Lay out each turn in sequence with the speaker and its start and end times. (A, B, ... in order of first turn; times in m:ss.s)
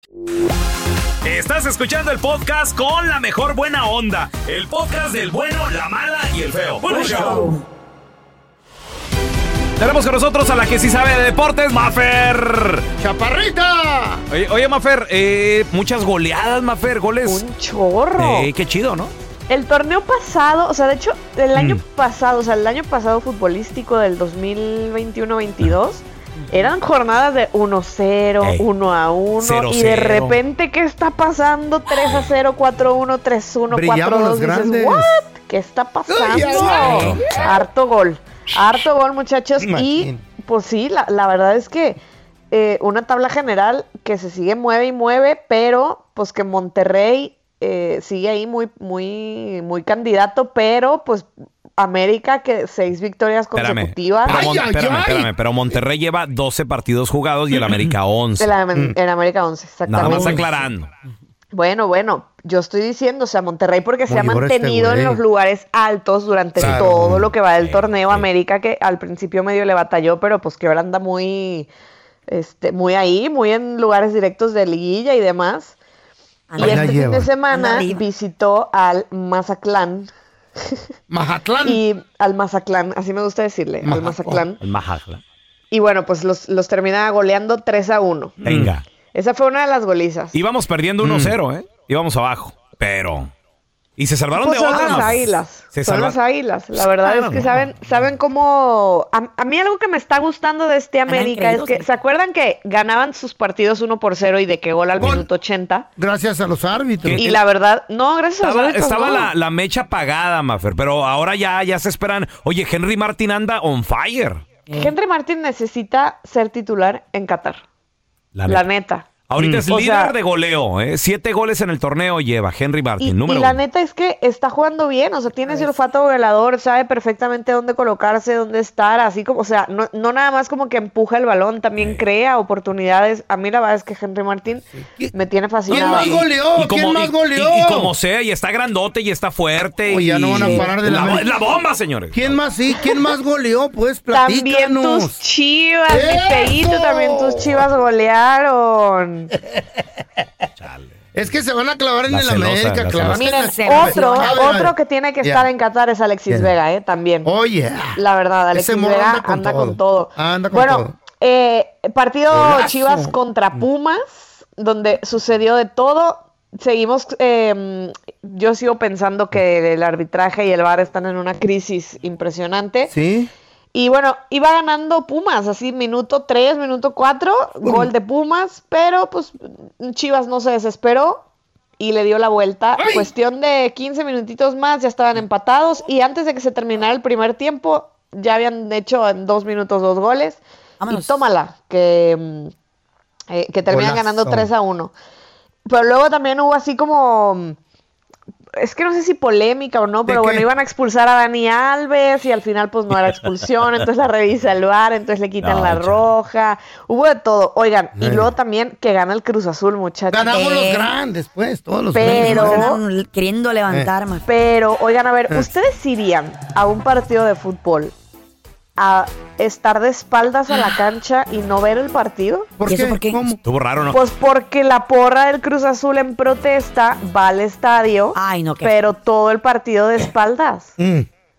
0:01.2-0:07.5 A
0:06.9-0:07.6 B
0:09.8-0:12.8 A
0:13.0-0:14.2 C
0:14.3-0:17.4 A
0:17.2-0:18.5 D
0:18.2-0:19.1 A
0:19.5-0:42.0 D
0:21.5-0:21.8 A
0:28.4-0:28.7 A
0:29.4-0:30.4 A
0:33.7-0:35.1 C
0:36.1-0:37.5 C
0:36.5-0:37.4 A
0:39.6-0:40.2 C
0:42.5-0:54.5 D
0:53.6-0:58.5 A
0:54.2-0:55.3 C
0:58.4-1:00.5 D
0:59.9-1:00.9 A
1:00.0-1:00.5 C
1:01.5-1:11.7 D
1:04.1-1:05.2 C
1:06.6-1:06.9 A
1:06.6-1:07.3 C
1:07.6-1:08.3 A
1:12.3-1:15.8 D
1:16.5-1:17.0 B
1:16.6-1:17.3 C
1:16.6-1:20.1 D
1:17.5-1:18.0 B
1:21.1-1:21.8 C
1:21.6-1:24.6 D
1:23.8-1:24.4 C
1:24.6-1:25.2 A
1:25.7-1:28.4 D
1:28.4-1:28.8 A
1:28.4-1:28.7 C
1:29.1-1:30.4 D
1:30.3-1:33.3 A
1:31.0-1:31.4 C
1:34.0-1:36.2 A
1:34.4-1:45.9 D
1:34.7-1:35.1 B
1:36.8-1:37.4 A
1:41.1-1:41.9 B
1:46.0-1:47.2 C
1:47.0-1:47.4 A
1:47.2-1:49.3 D
1:48.4-1:54.4 A
1:54.7-1:57.6 D
1:58.4-1:58.6 A
1:58.5-1:59.1 D
1:59.3-2:03.6 A
1:59.6-2:00.1 D
2:03.0-2:16.3 D
2:15.7-2:17.9 C
2:15.7-2:22.4 A
2:19.9-2:21.4 C
2:20.4-2:20.6 B
2:22.1-2:25.2 C
2:24.1-2:29.3 D
2:25.9-2:27.6 C
2:30.6-2:30.9 A
2:31.2-2:35.5 C
2:32.1-2:33.2 A
2:33.2-2:37.3 D
2:33.2-2:34.4 B
2:37.2-2:38.0 C
2:38.0-2:52.9 D
2:38.5-2:41.0 C
2:42.3-2:43.1 C
2:52.9-2:53.3 C
2:53.7-3:01.2 D
2:57.6-2:57.9 C
3:01.8-3:12.5 D
3:02.8-3:03.1 C
3:10.8-3:11.2 B
3:13.3-3:14.9 D
3:13.7-3:14.5 C
3:15.7-3:17.6 D
3:18.6-3:30.3 D
3:20.1-3:20.5 C
3:25.4-3:26.0 A
3:28.0-3:28.3 C
3:30.1-3:32.7 C
3:30.3-3:30.9 B
3:31.9-3:32.8 D
3:32.0-3:34.2 B
3:34.2-3:37.9 D
3:38.8-3:42.5 D
3:42.6-3:43.4 C
3:42.7-3:43.2 B
3:43.4-3:44.0 A
3:43.9-3:50.7 D
3:48.2-3:48.7 B
3:50.8-3:51.0 C